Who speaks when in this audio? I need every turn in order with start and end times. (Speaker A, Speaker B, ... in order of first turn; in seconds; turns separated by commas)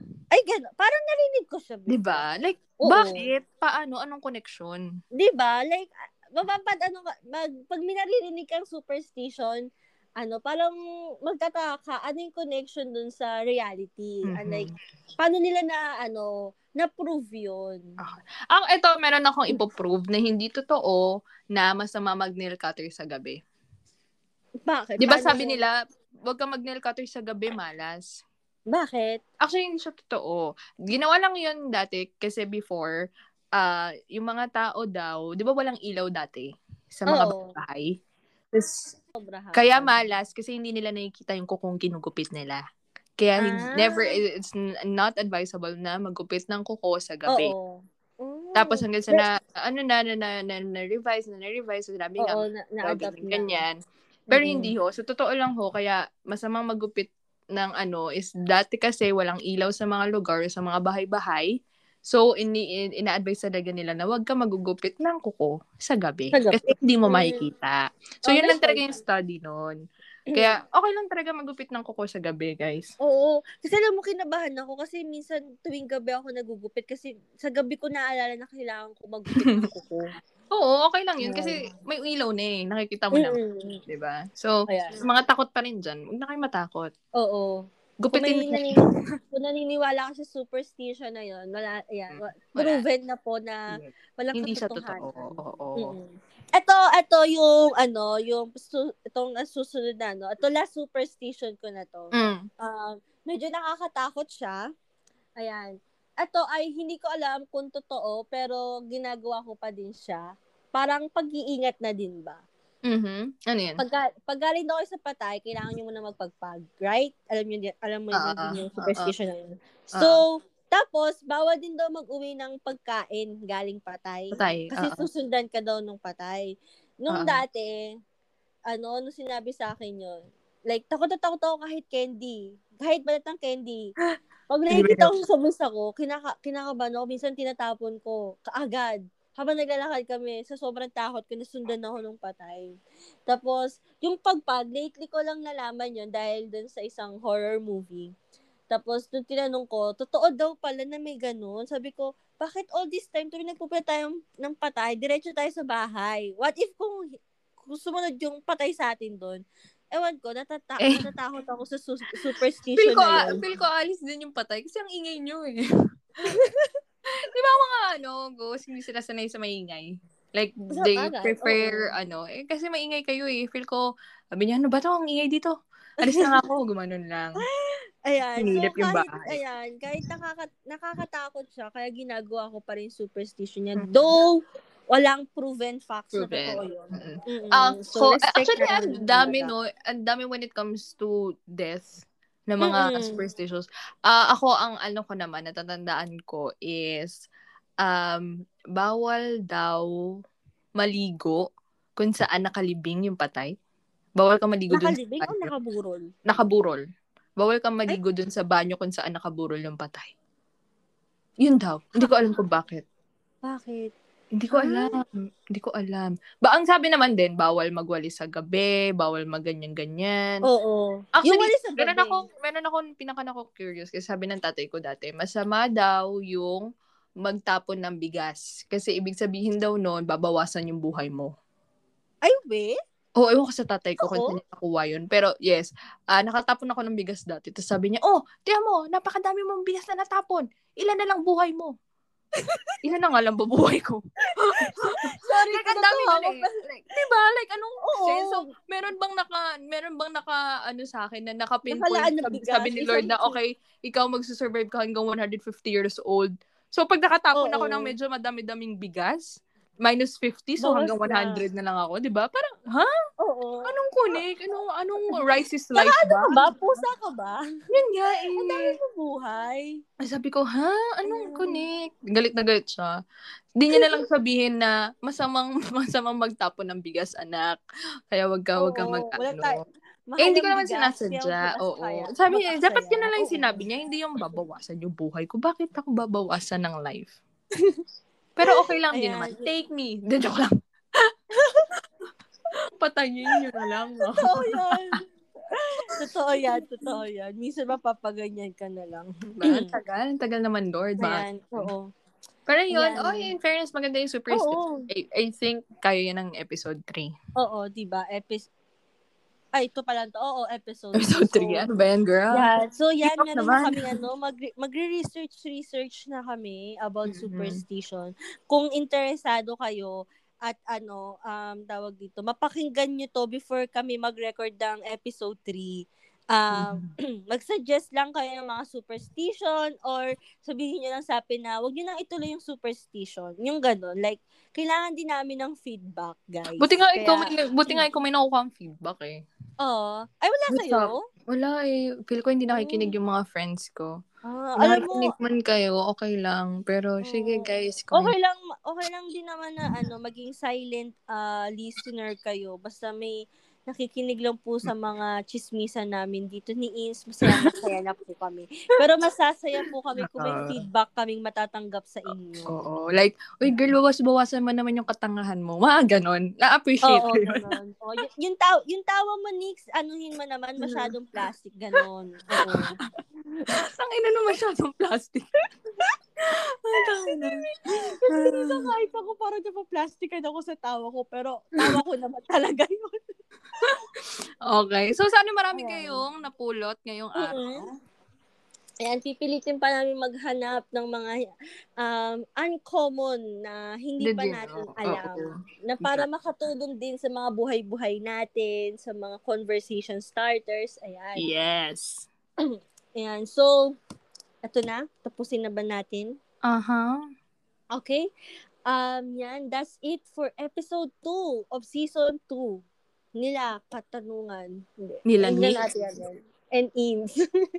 Speaker A: 0.3-2.3, Speaker B: 1.9-4.8, Speaker A: 2.8-3.3, Speaker A: 5.2-9.7, Speaker A: 10.2-17.9, Speaker B: 14.3-14.7, Speaker B: 18.0-23.4, Speaker A: 24.7-25.6, Speaker B: 25.0-25.7, Speaker B: 26.3-28.1, Speaker A: 28.7-29.2, Speaker B: 29.4-32.9, Speaker B: 33.6-37.9, Speaker A: 37.1-37.5, Speaker B: 38.5-39.0, Speaker A: 39.2-40.0, Speaker B: 39.6-42.6, Speaker B: 43.2-47.5, Speaker A: 43.4-44.2, Speaker A: 47.3-49.3, Speaker B: 48.5-53.8, Speaker A: 52.2-53.6, Speaker A: 54.3-54.7, Speaker B: 54.3-61.5, Speaker B: 62.1-69.8, Speaker A: 66.3-67.4, Speaker A: 68.3-68.9, Speaker B: 70.3-72.9, Speaker A: 73.0-80.1, Speaker B: 80.5-86.9, Speaker A: 81.2-81.7, Speaker A: 83.1-83.8, Speaker A: 84.7-85.0, Speaker A: 87.2-104.6, Speaker B: 88.0-88.9, Speaker B: 92.1-92.8, Speaker B: 93.7-96.0, Speaker B: 102.1-102.4, Speaker A: 105.4-112.4, Speaker B: 112.9-113.8, Speaker A: 113.8-126.5, Speaker B: 118.1-119.1, Speaker B: 119.9-120.2, Speaker B: 124.3-125.1, Speaker A: 127.0-127.8, Speaker B: 127.1-127.4, Speaker A: 128.7-133.9, Speaker A: 134.5-142.7, Speaker B: 134.7-135.1, Speaker A: 143.3-148.1, Speaker A: 148.7-157.0, Speaker A: 157.6-163.4, Speaker B: 162.8-165.6, Speaker A: 166.2-166.7, Speaker B: 167.3-173.8, Speaker A: 170.7-171.9, Speaker B: 174.3-177.4, Speaker A: 176.0-176.4, Speaker A: 177.4-184.4, Speaker B: 178.4-179.4, Speaker B: 183.8-184.0, Speaker A: 184.9-189.5, Speaker B: 186.1-197.2, Speaker A: 192.6-193.2, Speaker B: 197.8-199.9, Speaker B: 200.8-201.4, Speaker B: 202.0-203.5, Speaker B: 204.2-205.5, Speaker A: 204.7-206.1, Speaker B: 206.3-206.8, Speaker B: 207.4-210.1, Speaker B: 211.4-212.8, Speaker A: 213.4-213.9, Speaker B: 214.4-220.4, Speaker A: 214.5-215.0, Speaker A: 220.4-222.2, Speaker B: 221.2-226.7, Speaker B: 227.2-231.3, Speaker A: 232.2-232.8, Speaker B: 233.2-241.7, Speaker A: 234.0-234.4, Speaker A: 242.4-242.8, Speaker B: 242.8-262.9, Speaker A: 244.3-246.6, Speaker A: 247.8-248.5, Speaker A: 251.7-253.4, Speaker A: 257.4-257.9, Speaker A: 260.6-261.4, Speaker A: 263.2-263.7, Speaker B: 263.7-266.9, Speaker A: 265.8-267.4, Speaker B: 267.7-268.8, Speaker A: 268.3-269.8, Speaker B: 270.0-273.0, Speaker A: 271.1-271.6, Speaker B: 273.6-277.6, Speaker A: 273.7-274.0, Speaker B: 278.1-279.6, Speaker A: 278.6-283.6, Speaker B: 280.2-287.2, Speaker B: 288.4-291.0, Speaker A: 288.5-289.5, Speaker A: 291.4-291.7, Speaker B: 292.8-294.9, Speaker A: 294.1-295.0, Speaker A: 295.6-299.8, Speaker B: 295.9-296.6, Speaker B: 299.4-301.7, Speaker A: 301.0-301.9, Speaker B: 302.5-307.1, Speaker A: 302.7-303.3, Speaker A: 304.3-304.9, Speaker A: 307.4-308.5, Speaker A: 309.6-311.7, Speaker B: 311.0-312.5, Speaker A: 312.3-325.8, Speaker B: 313.1-313.9, Speaker B: 317.1-317.6, Speaker A: 326.3-337.9, Speaker B: 326.5-326.9, Speaker B: 336.6-339.2, Speaker A: 339.6-341.0, Speaker B: 340.5-344.0, Speaker A: 342.5-342.9, Speaker A: 344.3-345.1, Speaker B: 344.6-348.1, Speaker A: 347.0-353.2, Speaker A: 353.7-362.6, Speaker B: 357.3-357.6, Speaker B: 360.0-360.6, Speaker B: 362.5-367.5, Speaker A: 366.9-372.8, Speaker B: 370.6-370.9, Speaker B: 372.4-372.8, Speaker B: 373.5-375.3, Speaker B: 376.3-377.4, Speaker A: 376.8-382.9, Speaker B: 378.1-378.7, Speaker B: 384.4-387.7, Speaker A: 385.6-386.0, Speaker A: 387.2-387.6, Speaker A: 388.8-391.3, Speaker A: 391.8-401.3, Speaker B: 394.0-396.1, Speaker B: 401.2-402.1, Speaker A: 402.4-403.8, Speaker A: 404.4-406.2, Speaker B: 406.5-407.0, Speaker A: 407.7-408.1, Speaker A: 408.7-412.6, Speaker A: 413.2-417.1, Speaker B: 415.1-415.6